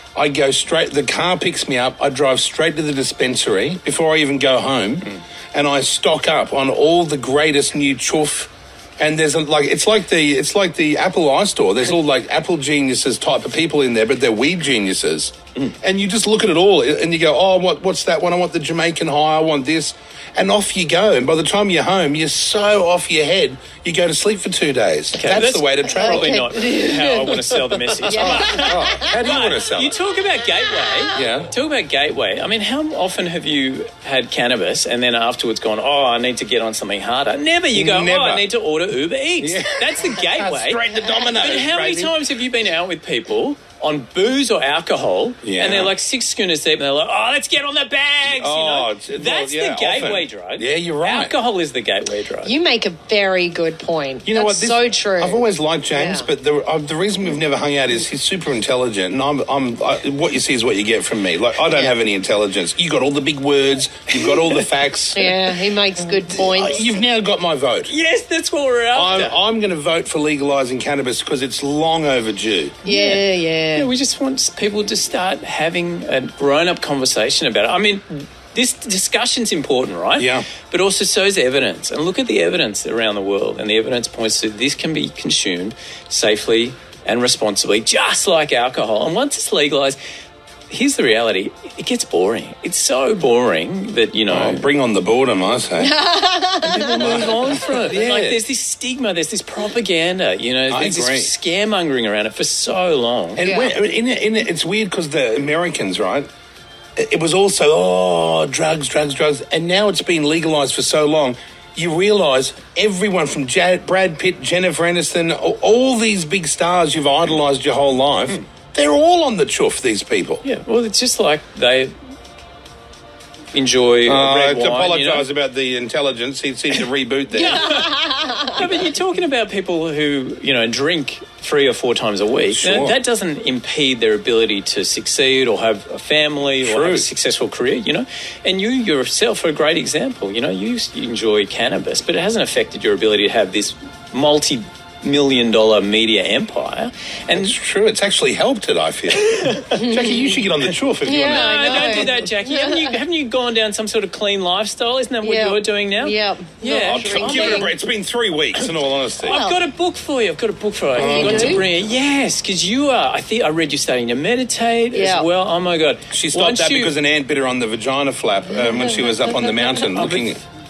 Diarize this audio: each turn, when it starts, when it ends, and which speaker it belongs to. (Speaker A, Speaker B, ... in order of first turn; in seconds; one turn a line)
Speaker A: 0.1-26.5
Speaker B: 25.1-52.5
Speaker C: 25.9-29.2
Speaker A: 28.1-30.0
Speaker A: 31.1-31.5
Speaker A: 37.7-38.5
Speaker A: 39.4-42.2
Speaker A: 45.4-45.9
Speaker A: 48.2-51.3
Speaker C: 52.4-56.3
Speaker A: 54.2-65.3
Speaker B: 64.3-64.6
Speaker C: 65.1-66.8
Speaker A: 66.3-67.9
Speaker B: 67.9-69.3
Speaker A: 68.9-72.8
Speaker C: 72.8-73.9
Speaker B: 72.8-90.0
Speaker A: 80.2-80.5
Speaker B: 90.7-94.7
Speaker A: 94.3-95.9
Speaker C: 95.8-97.3
Speaker B: 96.6-103.4
Speaker A: 96.7-98.4
Speaker A: 100.7-101.3
Speaker A: 103.3-106.3
Speaker C: 103.4-103.7
Speaker A: 107.0-120.4
Speaker B: 120.4-121.9
Speaker B: 123.5-125.3
Speaker A: 124.0-127.8
Speaker B: 127.3-147.5
Speaker C: 127.6-128.5
Speaker A: 132.5-133.0
Speaker A: 136.6-137.1
Speaker A: 147.3-151.5
Speaker B: 149.1-149.8
Speaker C: 149.7-150.4
Speaker C: 151.0-153.0
Speaker B: 151.1-157.7
Speaker C: 155.2-157.7
Speaker A: 156.9-159.4
Speaker B: 159.2-166.9
Speaker C: 159.2-159.6
Speaker A: 160.9-161.6
Speaker C: 161.0-161.6
Speaker C: 164.9-165.3
Speaker A: 166.1-170.4
Speaker C: 168.7-169.4
Speaker B: 169.8-170.3